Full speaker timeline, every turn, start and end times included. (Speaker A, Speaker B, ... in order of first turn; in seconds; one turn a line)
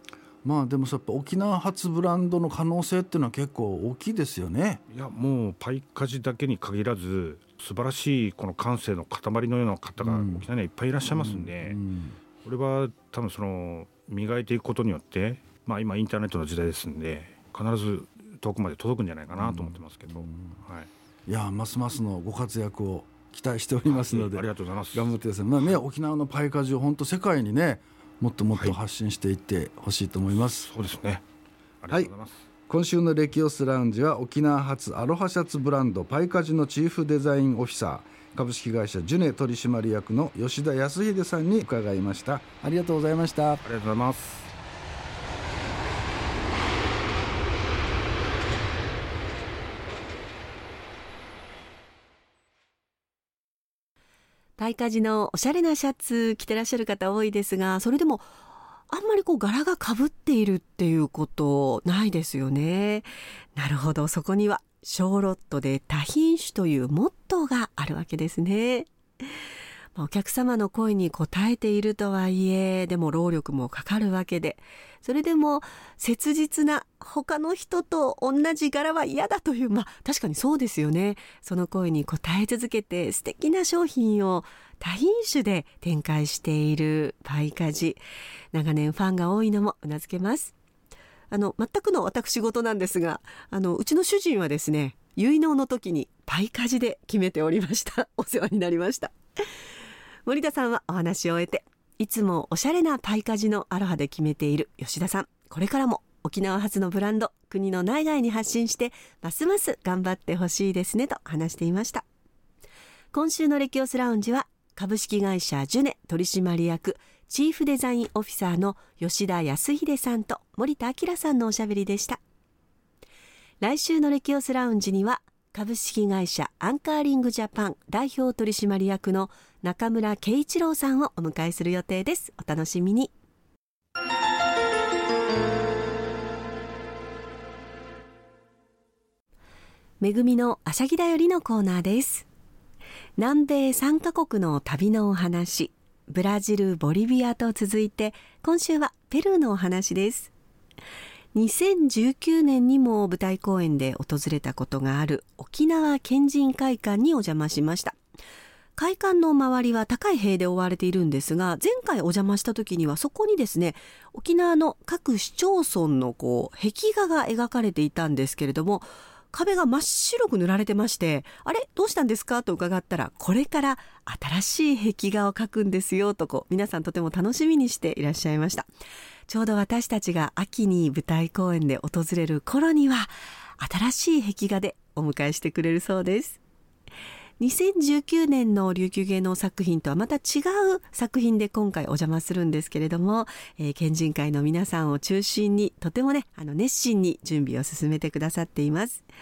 Speaker A: 0.4-4.8
Speaker B: 4.9-11.8
Speaker A: 10.0-10.5
Speaker A: 11.0-12.2
Speaker B: 12.4-20.9
Speaker A: 19.3-20.6
Speaker A: 21.3-30.7
Speaker B: 23.9-25.8
Speaker B: 28.5-28.8
Speaker B: 30.3-31.2
Speaker B: 31.8-32.5
Speaker A: 32.7-43.6
Speaker B: 43.6-44.5
Speaker C: 54.6-58.2
Speaker C: 58.9-69.3
Speaker C: 69.9-88.0
Speaker C: 88.5-90.5
Speaker C: 91.3-99.1
Speaker C: 100.2-112.0
Speaker C: 113.1-122.2
Speaker C: 123.6-133.1
Speaker C: 140.0-142.3
Speaker C: 143.2-150.3
Speaker C: 151.3-158.0
Speaker C: 158.8-178.7
Speaker C: 179.3-186.4
Speaker C: 187.4-199.0